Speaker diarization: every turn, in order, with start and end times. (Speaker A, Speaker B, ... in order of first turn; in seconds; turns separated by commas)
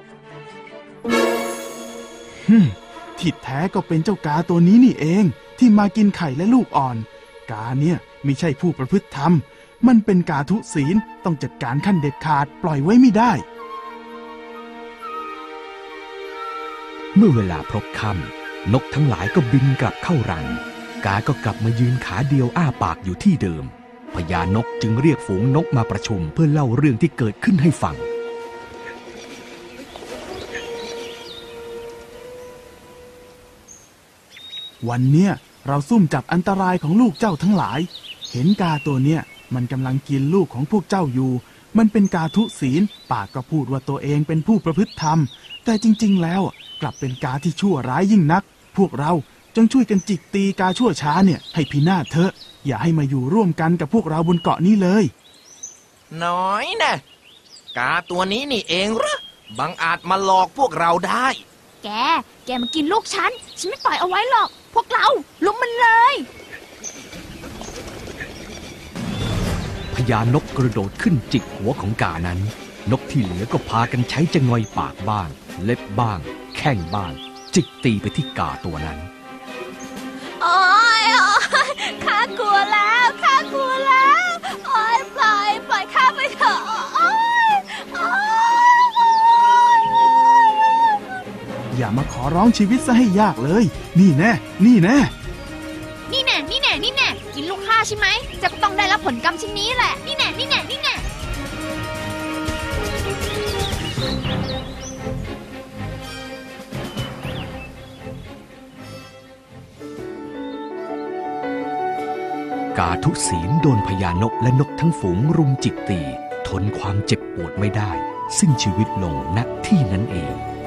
Speaker A: 2.5-13.4, Speaker B: 17.1-28.1, Speaker A: 34.8-55.1, Speaker C: 56.1-57.0, Speaker C: 57.7-61.4, Speaker D: 61.8-66.2, Speaker B: 69.9-79.1, Speaker E: 80.4-90.1, Speaker A: 91.7-95.1, Speaker D: 96.1-101.0, Speaker B: 112.7-120.4